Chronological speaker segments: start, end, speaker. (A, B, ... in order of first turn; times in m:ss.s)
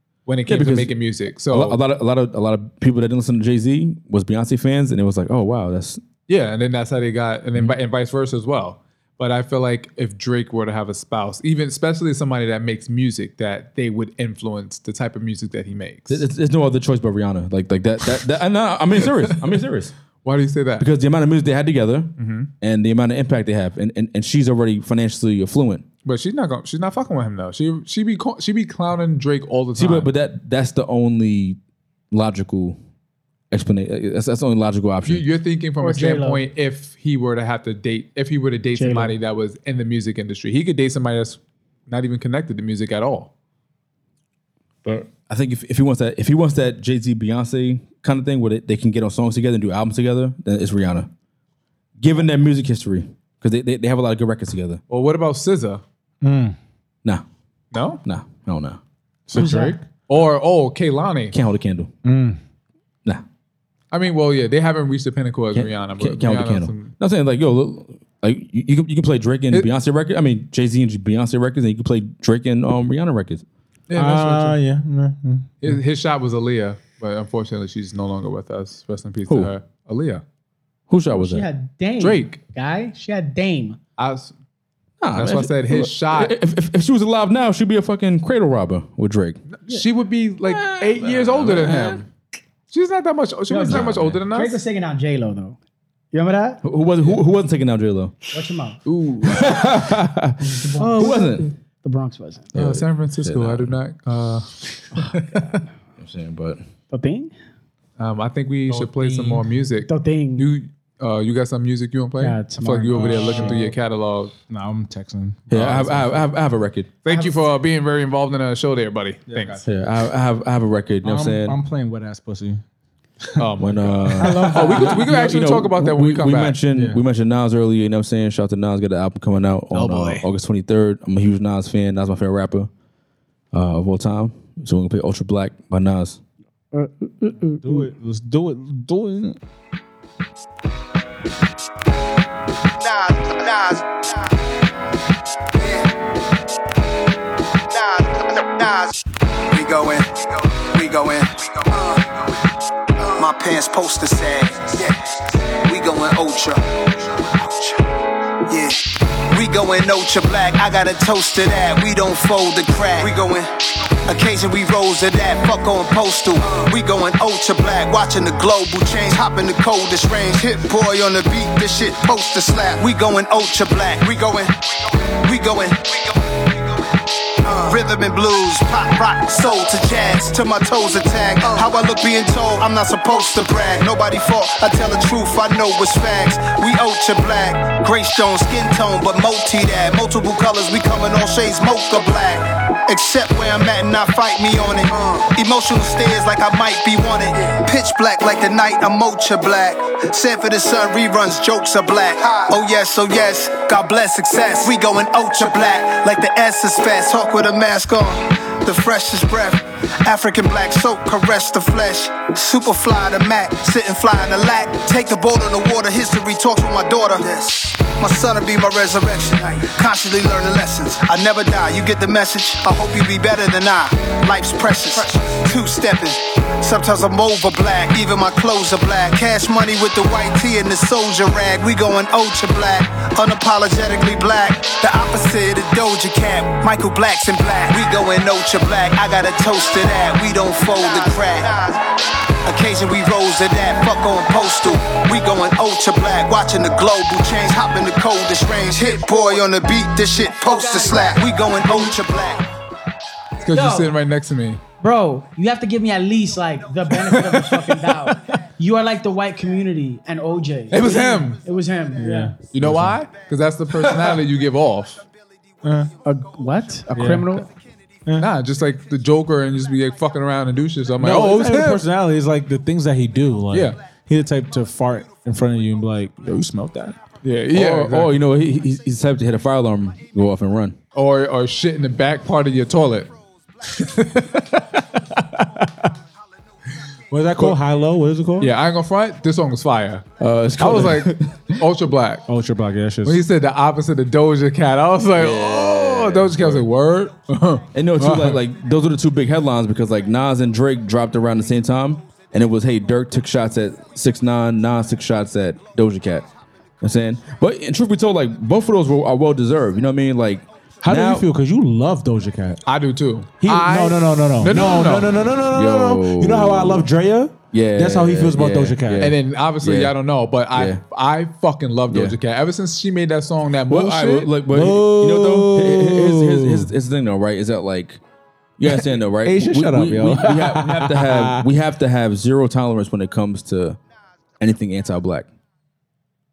0:00.2-0:01.8 A
0:00.5-0:00.9 B
0:01.5-0:06.0 B
0:06.3-0:16.2 A
0:16.1-0:19.9 B
0:20.2-0:20.9 A
0:20.8-0:25.8 B
0:22.2-0:22.5 A
0:26.0-0:30.1 A
0:29.8-0:31.6 B
0:32.1-0:32.8 B
0:33.5-0:35.2 B
0:35.0-0:43.3 A
0:35.8-0:36.4 C
0:38.7-0:39.1 C
0:45.3-0:51.1 B
0:52.0-0:54.8 B
0:54.9-0:55.8 A
0:56.2-0:56.6 D
0:57.7-0:58.0 A
0:58.0-0:58.8 B
0:59.3-0:59.8 D
0:59.3-0:59.8 C
1:00.1-1:01.3 A
1:01.3-1:01.9 B
1:02.0-1:02.4 D
1:03.9-1:06.9 A
1:05.5-1:13.4 B
1:13.9-1:14.6 A
1:13.9-1:15.7 D
1:15.6-1:20.2 A
1:19.3-1:19.5 B
1:20.9-1:21.4 B
1:21.1-1:23.8 C
1:22.0-1:22.4 A
1:24.0-1:24.3 A
1:25.0-1:29.4 B
1:25.1-1:26.4 A
1:29.5-1:32.0 A
1:30.6-1:31.9 B
1:32.7-1:34.6 A
1:33.5-1:35.6 C
1:33.7-1:34.2 B
1:36.1-1:36.6 C
1:36.6-1:38.1 B
1:38.3-1:38.8 C
1:38.8-1:41.5 B
1:40.4-1:42.5 C
1:42.5-1:43.8 B
1:42.5-1:45.5 A
1:46.0-1:46.6 B
1:46.9-1:47.3 C
1:48.0-1:54.3 A
1:48.7-1:49.5 D
1:49.8-1:50.5 C
1:52.2-1:53.7 C
1:52.9-1:53.7 D
1:54.5-1:56.3 D
1:55.5-1:56.9 B
1:57.0-1:59.6 A
1:59.3-1:59.6 D
1:59.6-2:01.6 B
2:01.0-2:02.6 D
2:03.4-2:06.6 A
2:03.6-2:12.7 B
2:04.2-2:05.0 D
2:06.7-2:07.0 D
2:09.7-2:10.2 A
2:13.5-2:16.2 B
2:16.7-2:17.9 C
2:17.6-2:19.4 D
2:22.8-2:24.3 E
2:25.6-2:25.9 E
2:27.7-2:29.0 E
2:29.5-2:32.4 E
2:33.0-2:37.8 E
2:38.5-2:43.5 E
2:44.0-2:56.5 E
2:57.4-4:01.8 E
4:02.4-4:12.4 E
4:10.4-4:11.2 C
4:13.4-4:14.6 A
4:13.5-4:13.9 C
4:14.8-4:22.3 C
4:17.0-4:18.0 A
4:20.7-4:21.4 A
4:22.0-4:23.0 D
4:22.5-4:25.0 A
4:23.8-4:24.1 D
4:25.6-4:25.9 D
4:26.0-4:27.5 C
4:26.9-4:27.4 D
4:28.0-4:28.3 D
4:28.2-4:31.8 A
4:31.0-4:37.0 D
4:33.5-4:33.8 A
4:37.2-4:38.2 A
4:37.5-4:40.8 B
4:40.9-4:43.1 A
4:43.7-4:44.4 A
4:45.3-4:45.8 D
4:47.1-4:48.5 D
4:48.4-4:52.2 A
4:50.2-4:51.4 B
4:52.3-4:53.2 D
4:53.0-4:57.6 A
4:55.2-4:56.7 B
4:57.7-5:06.2 B
4:58.0-4:58.4 D
5:06.8-5:11.3 B
5:10.8-5:12.6 D
5:12.6-5:15.2 A
5:13.4-5:19.1 D
5:15.5-5:16.9 B
5:17.5-5:19.9 B
5:19.0-5:24.3 A
5:20.5-5:20.8 B
5:21.9-5:22.1 B
5:23.7-5:28.0 B
5:24.5-5:26.7 D
5:28.6-5:33.8 B
5:28.6-5:31.4 D
5:34.4-5:35.3 B